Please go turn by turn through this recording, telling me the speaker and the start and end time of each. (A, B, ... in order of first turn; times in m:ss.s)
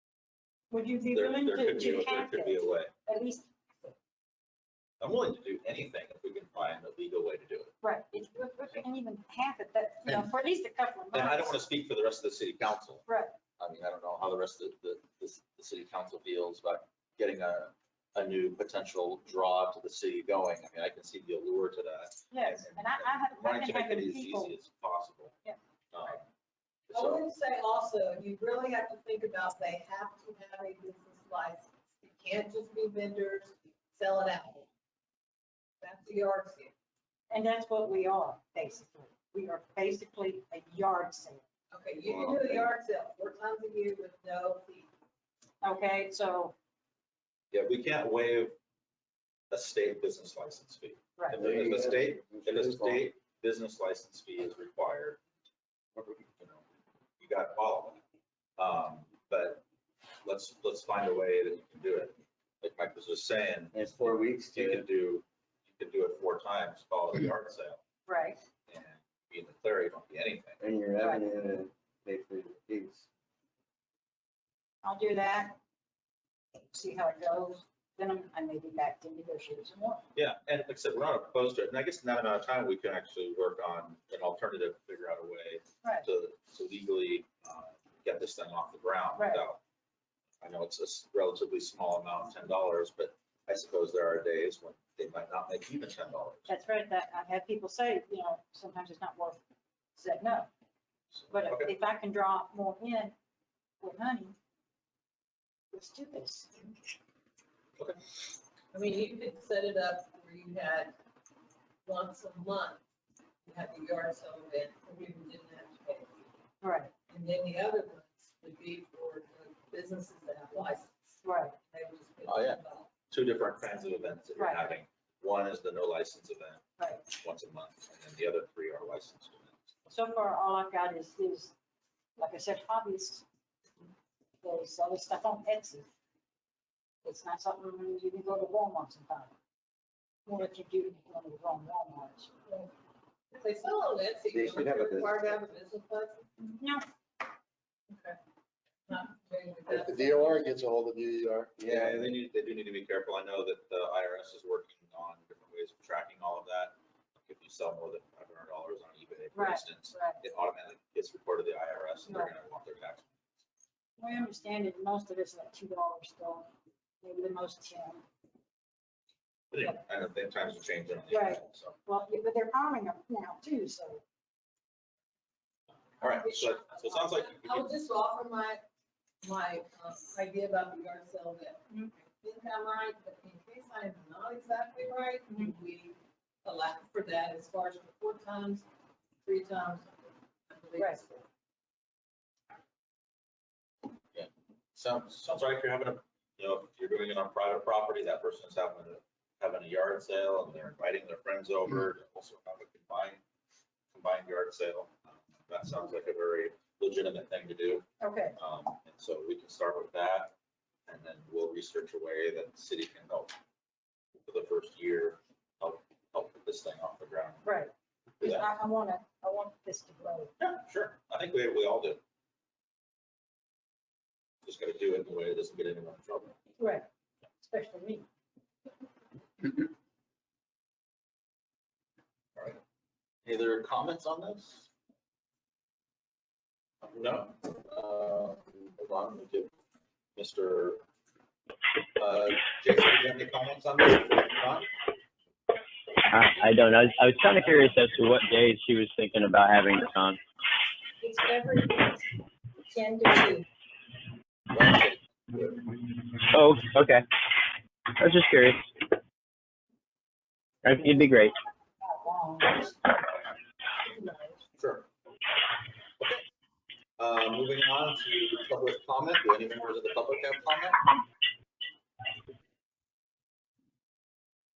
0:00.7-0:03.9 A
0:01.1-0:02.9 B
0:05.0-0:07.7 B
0:07.8-0:11.6 A
0:11.1-0:13.1 B
0:13.0-0:13.4 A
0:13.6-0:25.3 B
0:22.3-0:24.5 A
0:25.4-0:26.2 A
0:25.9-0:26.3 B
0:26.9-0:27.2 B
0:26.9-0:34.7 C
0:35.8-0:36.7 C
0:37.3-0:41.4 A
0:41.7-0:44.9 C
0:42.0-0:42.7 D
0:45.6-0:46.5 A
0:47.5-0:48.6 B
0:49.5-0:55.2 B
0:51.3-0:53.0 D
0:56.3-0:56.6 B
0:57.2-0:58.0 B
0:58.6-0:59.6 B
1:00.2-1:07.8 B
1:03.7-1:04.8 D
1:08.0-1:08.4 A
1:08.7-1:10.6 B
1:10.6-1:13.1 D
1:14.8-1:15.6 A
1:16.7-1:20.0 A
1:20.1-1:29.6 B
1:29.2-1:29.4 A
1:30.4-1:36.5 B
1:36.5-1:39.4 A
1:40.0-1:40.5 A
1:41.1-1:41.7 B
1:41.3-1:43.1 A
1:43.8-1:44.4 A
1:45.7-1:46.7 A
1:48.7-1:50.9 C
1:51.8-1:52.8 C
1:53.4-1:56.3 C
1:56.6-1:56.9 A
1:57.1-2:01.1 C
2:01.2-2:01.6 A
2:01.7-2:02.9 C
2:02.2-2:09.7 B
2:04.4-2:04.6 A
2:06.8-2:07.0 A
2:09.9-2:11.5 A
2:12.2-2:13.2 A
2:14.4-2:15.9 A
2:17.0-2:19.3 A
2:20.2-2:22.3 A
2:23.3-2:26.3 C
2:24.3-2:25.3 D
2:26.5-2:26.8 A
2:27.9-2:28.2 C
2:28.9-2:30.5 C
2:29.7-2:31.6 E
2:31.6-2:32.1 D
2:31.6-2:43.1 B
2:39.3-2:40.2 A
2:42.1-2:42.3 A
2:44.0-2:46.5 A
2:47.0-2:48.0 A
2:49.5-2:51.8 B
2:51.1-2:54.0 A
2:56.0-2:57.7 B
2:56.0-2:58.6 C
2:59.2-3:01.6 C
3:02.2-3:08.6 C
3:05.3-3:05.5 A
3:09.2-3:11.2 C
3:14.1-3:23.2 B
3:23.9-3:27.8 B
3:28.0-3:28.3 A
3:28.4-3:30.3 B
3:30.9-3:33.3 B
3:34.3-3:37.5 B
3:37.4-3:40.3 A
3:38.2-3:38.5 B
3:40.4-3:42.0 B
3:44.4-3:46.3 B
3:46.6-3:46.9 A
3:47.4-3:48.0 A
3:53.2-3:54.7 B
3:56.8-3:59.5 B
4:00.2-4:00.8 B
4:02.0-4:04.7 B
4:06.1-4:10.2 F
4:07.4-4:07.7 B
4:11.0-4:12.1 C
4:12.7-4:13.4 C
4:14.5-4:15.6 B
4:16.3-4:17.0 F
4:18.0-4:18.6 F
4:20.6-4:21.3 F
4:21.8-4:22.8 A
4:23.9-4:24.4 A
4:24.6-4:24.9 B
4:27.0-4:30.8 B